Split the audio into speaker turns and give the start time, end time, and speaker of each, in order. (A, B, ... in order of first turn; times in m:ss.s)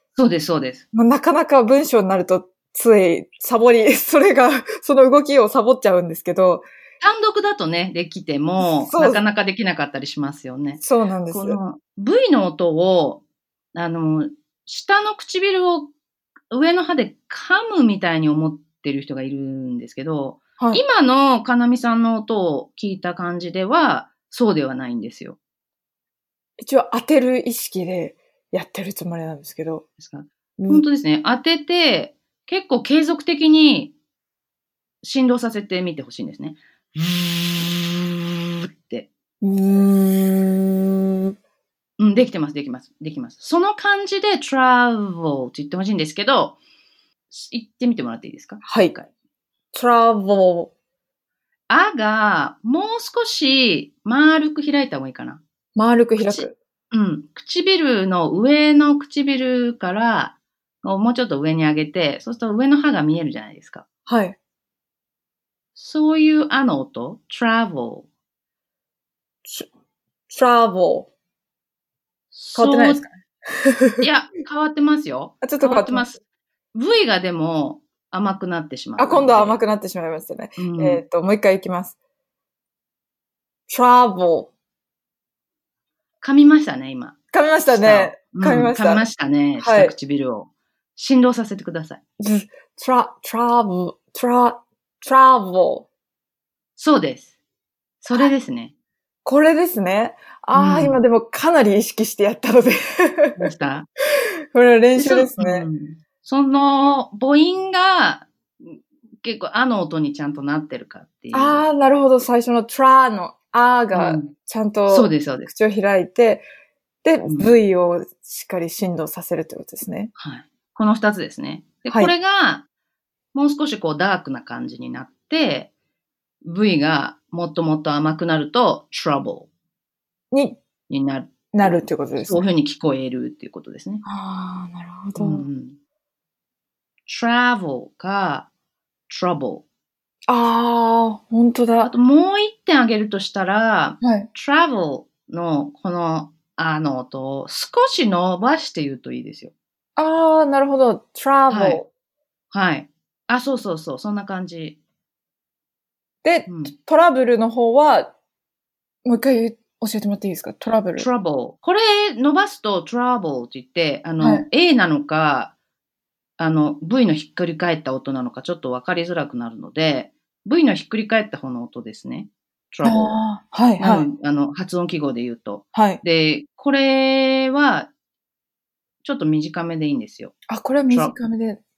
0:00.1-0:00.8 A
0:00.9-0:06.7 B
0:07.0-0:13.2 A
0:08.6-0:09.2 B
0:10.8-0:11.6 B
0:13.7-0:15.9 A
0:16.5-0:25.4 A
0:26.6-0:29.8 B
0:30.0-0:33.9 A
0:30.6-0:30.8 B
0:35.0-0:39.1 A
0:39.4-0:41.3 B
0:42.0-0:46.6 A
0:47.3-0:49.1 A
0:48.6-0:48.9 B
0:49.7-0:50.7 B
0:51.7-0:55.4 A
0:55.7-0:56.5 B
0:56.2-1:03.8 A
1:04.1-1:04.4 B
1:05.8-1:08.1 A
1:10.3-1:11.1 B
1:12.3-1:13.0 A
1:12.5-1:14.1 B
1:14.0-1:16.2 A
1:15.4-1:16.1 B
1:16.7-1:19.6 A
1:19.0-1:22.0 B
1:20.6-1:21.0 A
1:23.7-1:24.5 B
1:26.2-1:27.1 A
1:27.3-1:29.1 B
1:27.7-1:32.0 A
1:29.6-1:29.9 B
1:32.2-1:35.8 B
1:36.8-1:37.3 A
1:38.0-1:38.7 A
1:39.2-1:43.5 B
1:40.5-1:41.0 A
1:43.4-1:43.9 A
1:44.5-1:45.7 B
1:45.0-1:51.6 A
1:51.3-1:56.4 B
1:53.9-1:54.3 A
1:54.9-1:55.5 A
1:57.0-2:00.1 B
2:00.2-2:02.6 A
2:03.3-2:05.7 A
2:06.4-2:09.5 A
2:10.3-2:10.6 B
2:10.9-2:14.0 A
2:11.5-2:12.5 B
2:14.0-2:15.4 B
2:15.1-2:15.8 A
2:17.0-2:18.5 A
2:19.1-2:19.6 A
2:20.3-2:21.9 B
2:21.8-2:29.5 A
2:24.0-2:24.3 B
2:30.0-2:31.9 B
2:31.5-2:31.8 A
2:32.5-2:34.8 A
2:36.2-2:38.1 B
2:36.5-2:36.7 A
2:39.0-2:41.1 B
2:41.0-2:45.5 A
2:44.2-2:44.4 B
2:46.4-2:53.2 A
2:52.8-2:54.1 B
2:53.8-2:57.9 A
2:55.7-2:56.0 B
2:59.0-3:00.4 A
3:00.5-3:01.6 B
3:00.9-3:01.2 A